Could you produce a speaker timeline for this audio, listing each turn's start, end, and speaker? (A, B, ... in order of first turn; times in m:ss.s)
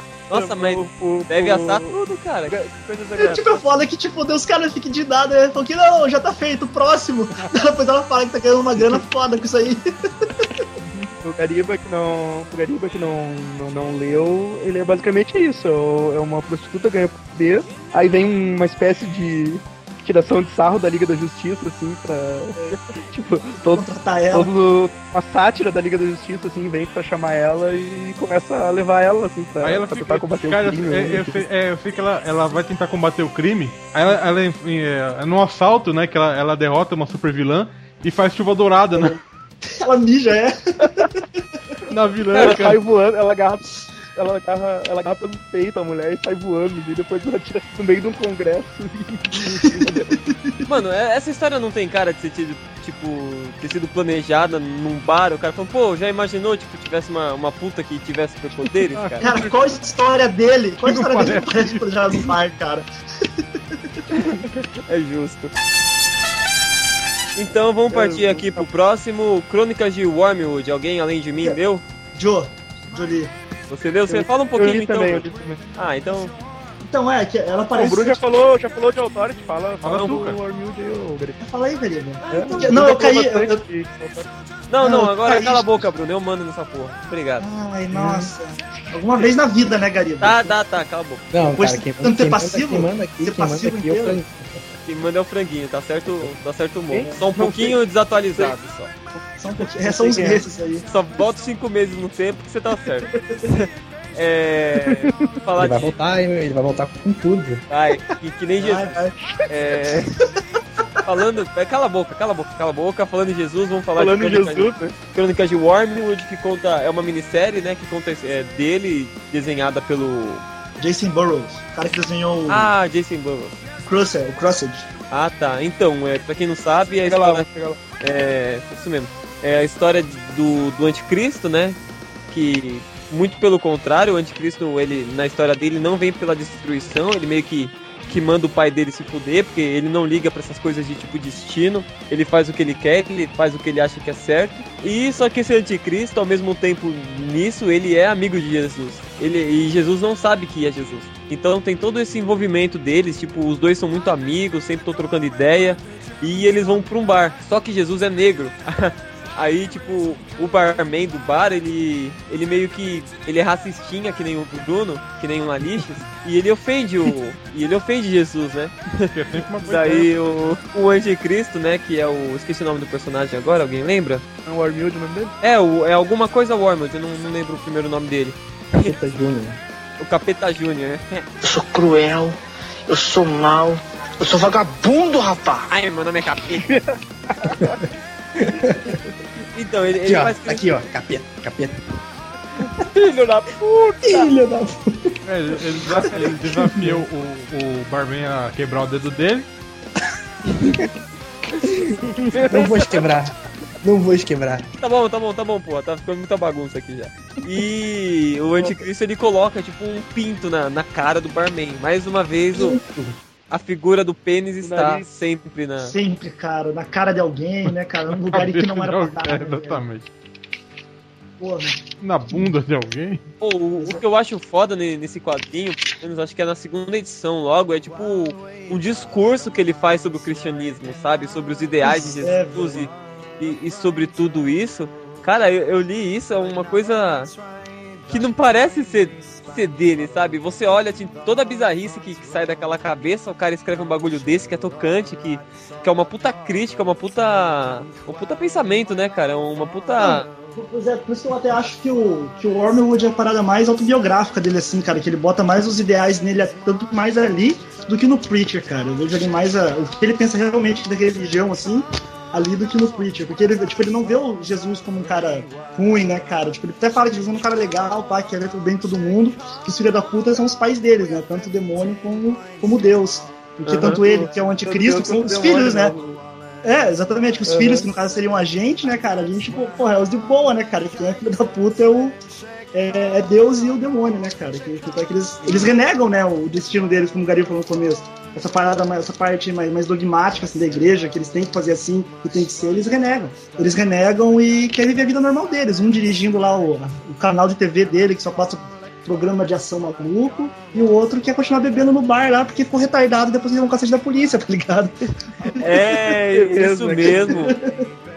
0:00.3-0:02.0 A
0:00.3-0:02.6 B
0:02.5-0:03.4 A
0:03.2-0:09.8 C
0:11.2-0:31.4 A
0:23.7-0:24.5 C
0:29.6-0:39.2 D
0:39.8-0:41.4 C
0:41.9-0:42.8 D
0:42.3-0:42.7 B
0:42.3-0:50.1 A
0:49.6-0:50.6 C
0:50.6-0:59.2 B
0:58.9-0:59.7 D
0:59.2-1:03.4 C
1:00.8-1:02.3 D
1:04.1-1:05.5 B
1:07.3-1:11.8 B
1:07.9-1:08.6 A
1:12.1-1:13.3 C
1:13.7-1:16.3 B
1:14.1-1:15.6 A
1:16.8-1:18.2 C
1:17.7-1:21.4 A
1:19.8-1:20.4 D
1:19.9-1:20.2 B
1:21.4-1:23.6 C
1:22.3-1:24.3 A
1:24.7-1:27.4 B
1:24.8-1:25.9 C
1:27.4-1:30.5 C
1:30.2-1:31.2 B
1:31.3-1:34.3 E
1:31.5-1:34.2 C
1:34.8-1:38.9 B
1:36.9-1:37.8 A
1:39.4-1:40.8 C
1:39.8-1:40.4 A
1:40.9-1:46.0 B
1:43.1-1:43.4 C
1:44.8-1:45.3 A
1:45.6-1:47.6 E
1:47.7-1:50.1 B
1:48.6-1:49.2 C
1:49.2-1:49.5 A
1:51.0-2:00.4 B
1:53.9-1:54.9 A
2:00.8-2:02.7 C
2:02.5-2:03.6 B
2:03.8-2:04.9 C
2:05.1-2:07.5 B
2:07.0-2:07.8 A
2:08.0-2:11.8 B
2:12.3-2:49.1 B
2:49.1-2:50.1 D
2:49.6-2:54.2 B
2:54.4-2:55.3 A
2:55.4-2:58.9 B
2:58.8-2:59.6 E
3:00.0-3:01.3 B
3:01.4-3:05.6 F
3:05.7-3:06.8 B
3:06.6-3:07.8 A
3:07.5-3:07.8 E
3:08.4-3:09.0 E
3:09.5-3:10.6 B
3:10.0-3:11.8 E
3:12.6-3:14.3 B
3:14.0-3:15.2 E
3:15.2-3:19.5 D
3:15.8-3:17.0 E
3:21.6-3:24.7 E
3:22.3-3:22.7 A
3:22.3-3:22.8 B
3:24.8-3:32.8 B
3:32.5-3:33.1 C
3:33.5-3:35.9 B
3:34.6-3:35.1 A
3:35.8-3:39.8 C
3:37.7-3:40.1 D
3:41.4-3:41.8 C
3:42.0-3:43.2 D
3:43.4-3:57.3 B
3:51.8-3:52.9 C
3:58.1-4:10.3 B
4:10.0-4:35.9 C
4:33.6-4:34.0 B
4:33.9-4:36.2 A
4:36.6-4:42.2 C
4:37.4-4:37.9 A
4:42.7-5:05.0 C
4:45.4-4:45.7 A
5:05.5-5:05.9 C
5:05.6-5:07.5 B
5:06.3-5:07.4 A
5:07.3-5:07.8 C